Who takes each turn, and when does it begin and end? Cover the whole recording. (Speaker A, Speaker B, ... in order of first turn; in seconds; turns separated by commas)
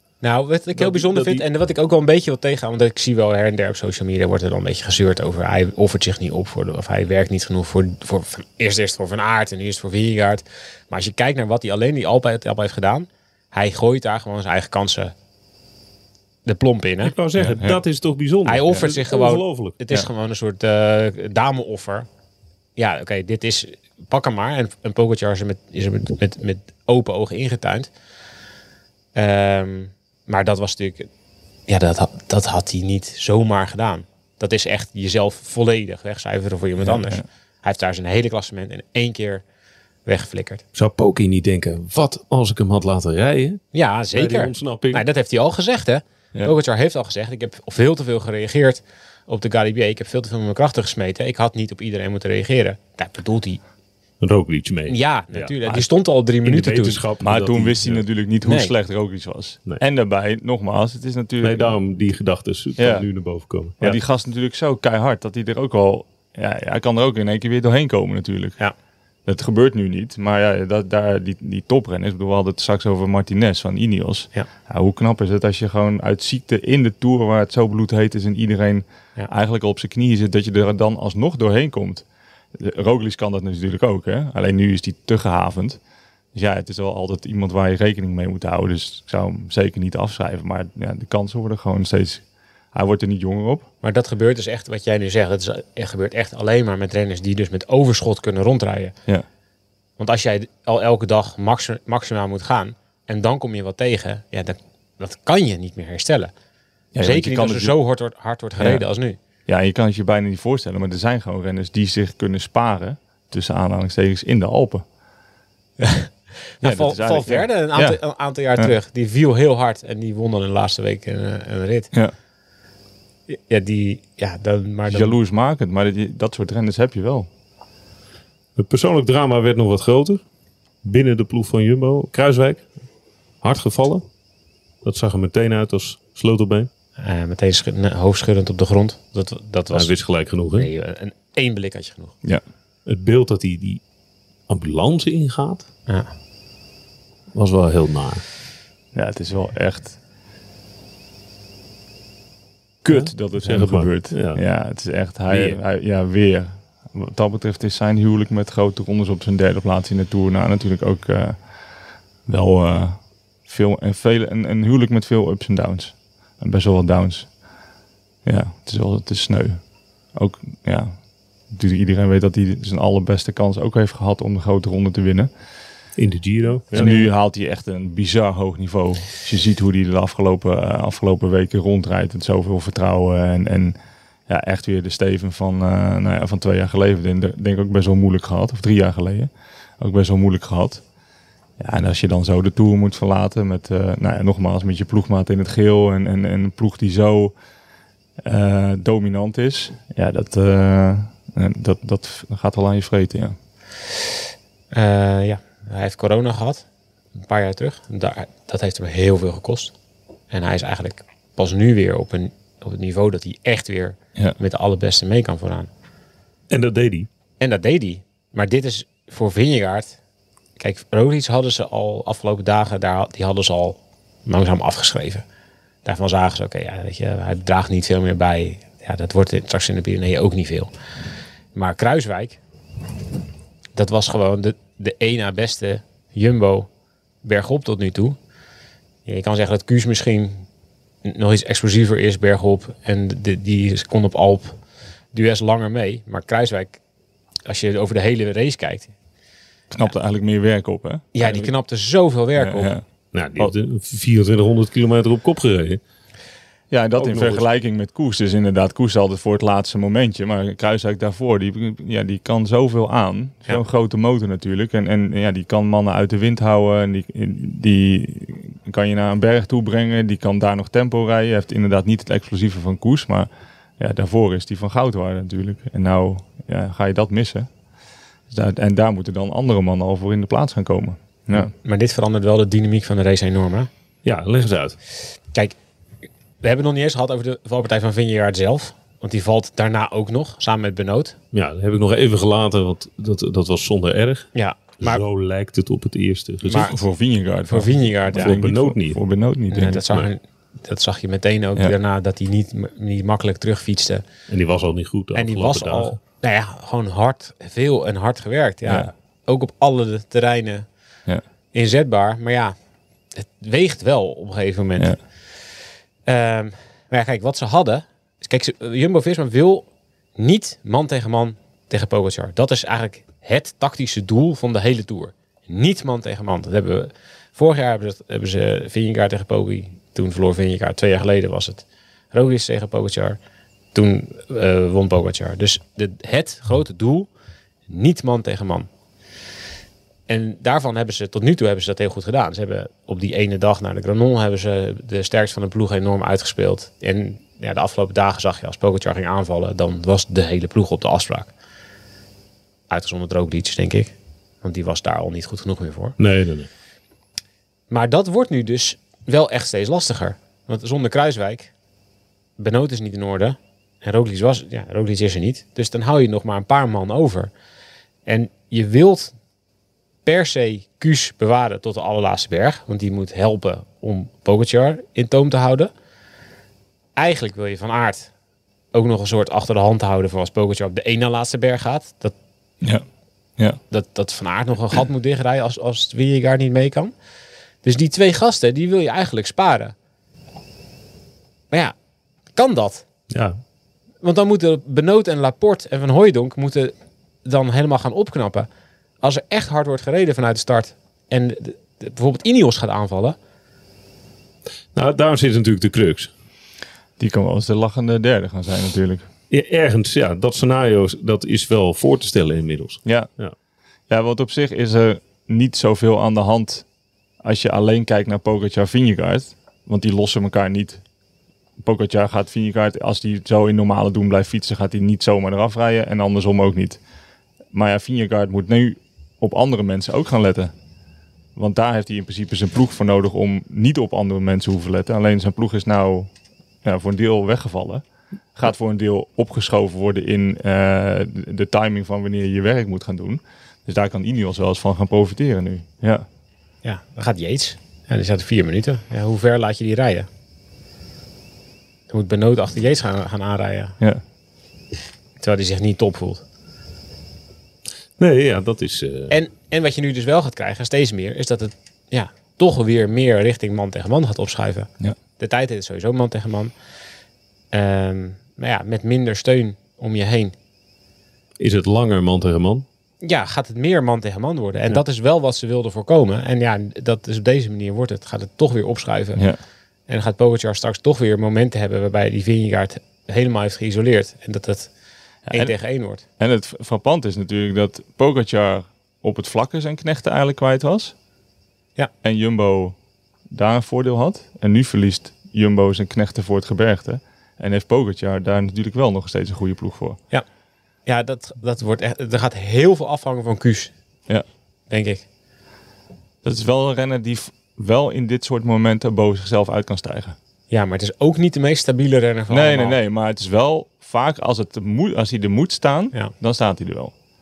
Speaker A: 0.2-15.1, Speaker B: 0.8-1.4, Speaker A: 16.5-17.1, Speaker B: 17.0-19.8, Speaker C: 17.4-17.8, Speaker A: 18.4-22.1, Speaker A: 22.8-27.9, Speaker A: 29.1-31.1, Speaker A: 31.7-39.4, Speaker C: 36.8-37.2, Speaker A: 40.1-40.6, Speaker B: 40.8-43.6, Speaker A: 43.7-53.6, Speaker B: 44.1-45.0, Speaker B: 54.2-55.9, Speaker A: 54.9-57.0, Speaker B: 56.4-58.0, Speaker C: 57.2-61.8, Speaker A: 58.5-58.7, Speaker B: 61.4-64.0, Speaker C: 62.8-63.1, Speaker C: 63.8-68.6, Speaker C: 69.3-82.0, Speaker C: 82.5-85.8, Speaker C: 86.3-93.7, Speaker A: 93.8-98.9, Speaker A: 100.0-106.3, Speaker C: 106.9-107.8, Speaker A: 107.0-109.2, Speaker C: 108.6-108.8, Speaker C: 109.5-114.8, Speaker A: 115.8-121.9, Speaker C: 116.6-118.0, Speaker A: 123.3-125.2, Speaker C: 124.9-127.3, Speaker B: 128.6-130.2, Speaker B: 130.8-132.7, Speaker B: 133.4-134.0, Speaker B: 134.8-136.7, Speaker A: 137.0-139.9, Speaker B: 139.7-140.7, Speaker A: 140.6-142.2, Speaker B: 142.9-143.8, Speaker B: 144.5-145.7, Speaker B: 147.3-148.2, Speaker C: 148.9-150.0, Speaker C: 152.8-161.4, Speaker B: 152.9-154.4, Speaker B: 155.3-155.6, Speaker C: 162.3-167.3, Speaker C: 168.2-169.6, Speaker C: 170.1-171.0, Speaker C: 171.5-175.3, Speaker B: 176.0-177.1, Speaker C: 176.7-183.8, Speaker C: 184.3-190.8, Speaker C: 191.6-197.3, Speaker C: 198.2-203.3, Speaker A: 204.7-206.7, Speaker A: 207.2-209.7, Speaker A: 210.3-215.7, Speaker B: 216.5-217.1, Speaker A: 217.4-220.0, Speaker A: 220.6-225.2, Speaker A: 225.8-230.7, Speaker A: 231.5-232.4, Speaker A: 233.8-236.7, Speaker A: 237.2-238.2, Speaker A: 239.1-240.4, Speaker A: 241.0-244.6, Speaker A: 245.1-246.8, Speaker A: 247.4-248.9, Speaker C: 249.7-251.1, Speaker A: 251.1-252.7, Speaker C: 252.4-252.8, Speaker B: 253.1-255.8, Speaker C: 256.7-277.5, Speaker B: 257.0-257.4, Speaker C: 278.3-281.5, Speaker A: 281.4-283.7, Speaker B: 284.1-284.8, Speaker A: 286.4-291.2, Speaker B: 291.3-296.7, Speaker A: 294.4-295.0, Speaker A: 296.4-296.8, Speaker C: 296.5-300.0, Speaker A: 297.5-298.4, Speaker B: 298.1-299.0, Speaker A: 299.5-304.1, Speaker B: 304.3-306.0, Speaker A: 305.1-310.7, Speaker A: 311.5-312.6, Speaker A: 313.1-315.0, Speaker A: 316.1-319.6, Speaker A: 320.2-333.2, Speaker A: 333.7-337.1, Speaker A: 337.7-338.7, Speaker A: 340.1-351.3, Speaker A: 352.7-356.0, Speaker B: 356.0-356.5, Speaker A: 357.7-361.5, Speaker A: 362.4-367.3, Speaker A: 368.1-369.1, Speaker A: 370.1-375.7, Speaker A: 377.0-378.1, Speaker A: 378.7-382.1, Speaker A: 383.7-386.9, Speaker A: 387.6-389.8, Speaker A: 392.4-392.9, Speaker B: 393.1-393.4, Speaker A: 394.0-396.7, Speaker A: 397.2-398.5, Speaker A: 399.0-403.2, Speaker B: 404.8-406.1, Speaker C: 407.0-409.1, Speaker B: 409.3-413.3, Speaker C: 413.9-416.7, Speaker C: 417.2-420.8, Speaker C: 421.6-426.8, Speaker C: 427.5-430.5, Speaker C: 431.4-436.1, Speaker C: 436.6-437.8, Speaker C: 438.4-446.1, Speaker A: 446.6-450.1, Speaker A: 451.9-453.8, Speaker A: 455.2-456.2, Speaker B: 458.0-459.1, Speaker A: 459.1-466.5, Speaker A: 467.5-470.4, Speaker B: 471.4-472.6, Speaker A: 473.0-479.2, Speaker A: 479.9-484.7, Speaker C: 485.3-485.5, Speaker A: 485.3-486.0, Speaker C: 486.2-490.9, Speaker C: 492.0-492.8, Speaker C: 493.3-500.0, Speaker A: 500.9-503.7, Speaker A: 504.7-505.1, Speaker C: 506.2-510.2, Speaker A: 510.5-512.8, Speaker C: 512.3-516.9